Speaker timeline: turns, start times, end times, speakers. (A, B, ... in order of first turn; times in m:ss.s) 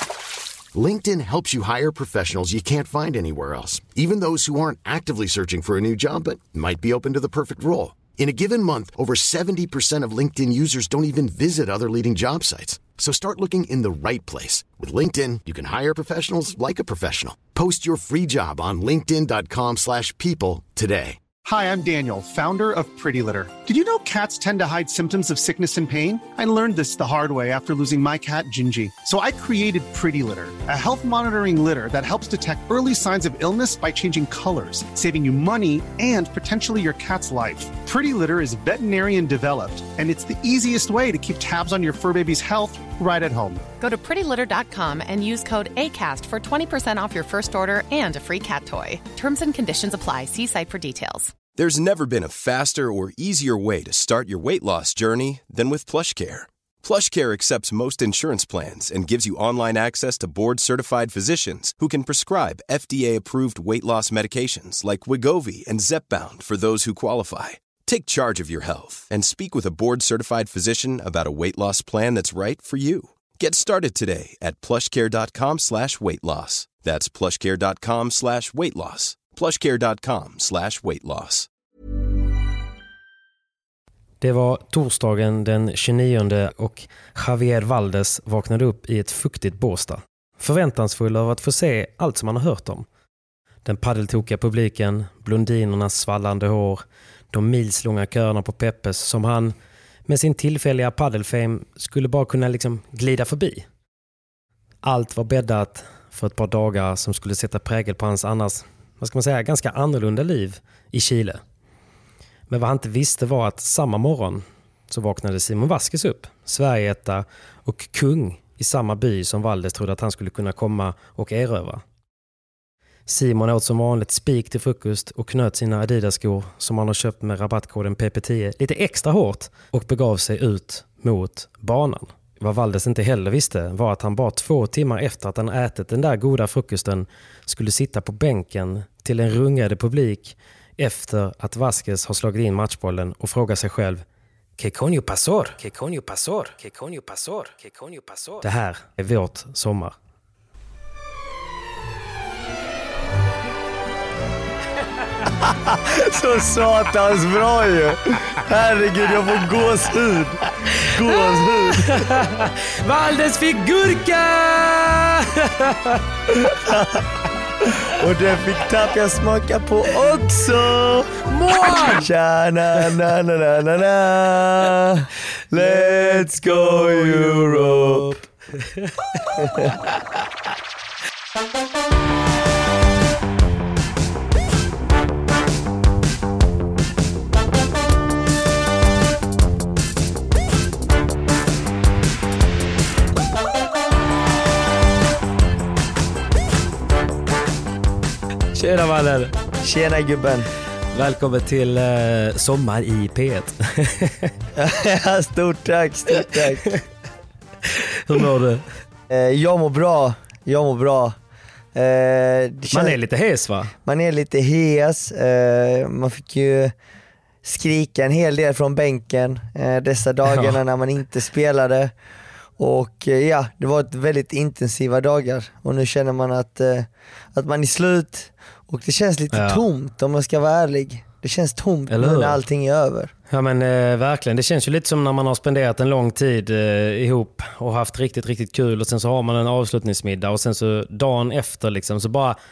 0:00.7-0:21.2 A
0:21.4-0:43.6 B
0:43.8-0:51.3 C
0:51.6-1:21.5 D
1:24.2-1:32.8 E
1:33.6-1:39.5 E
1:40.1-1:43.6 E
1:44.8-1:51.4 E
1:52.5-2:01.8 E
2:03.1-2:24.0 E
2:24.6-2:29.9 E
2:35.4-2:42.0 F
2:40.7-2:41.2 E
2:41.7-2:46.7 E
2:46.6-2:47.0 F
2:47.8-2:58.1 F
2:51.3-2:52.0 E
2:55.6-3:00.0 E
2:59.4-2:59.7 F
3:18.5-3:19.3 E
3:19.6-3:20.5 F
3:20.9-3:24.3 E
3:24.5-3:26.7 F
3:26.2-3:26.8 E
3:27.8-3:28.7 E
3:29.1-3:31.2 F
3:31.7-3:33.0 F
3:32.7-3:33.7 E
3:33.8-3:36.7 F
3:37.4-3:41.9 F
3:40.3-3:40.6 E
3:42.6-3:53.1 F
3:49.3-3:49.6 E
3:51.9-3:52.4 E
3:53.3-4:02.4 E